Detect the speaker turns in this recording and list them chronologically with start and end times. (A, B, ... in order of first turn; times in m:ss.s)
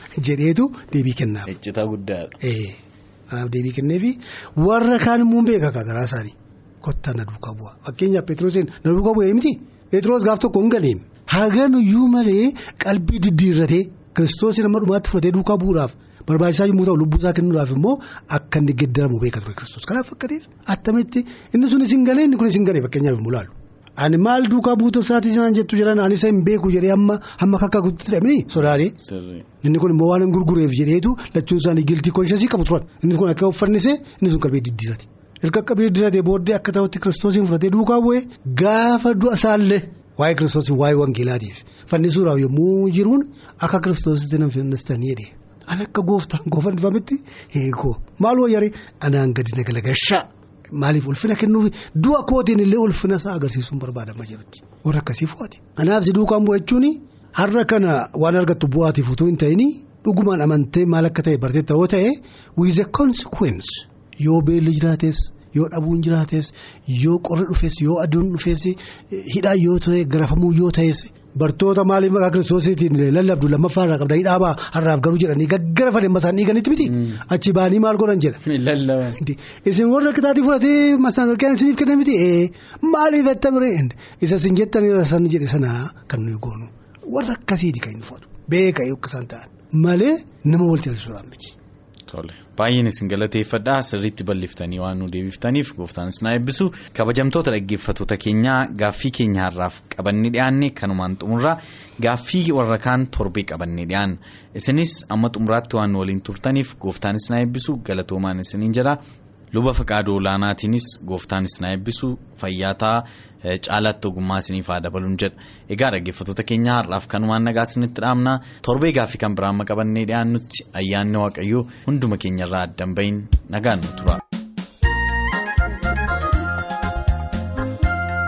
0:00.2-0:01.5 A
0:01.5-0:02.4 B
0:02.4-0:28.9 A
0:28.6-0:29.4 B
0:29.6-1:18.4 A
1:16.8-1:17.2 B
1:18.4-1:19.2 B
1:19.1-1:31.5 A
1:32.1-1:49.0 B
1:49.5-2:04.2 B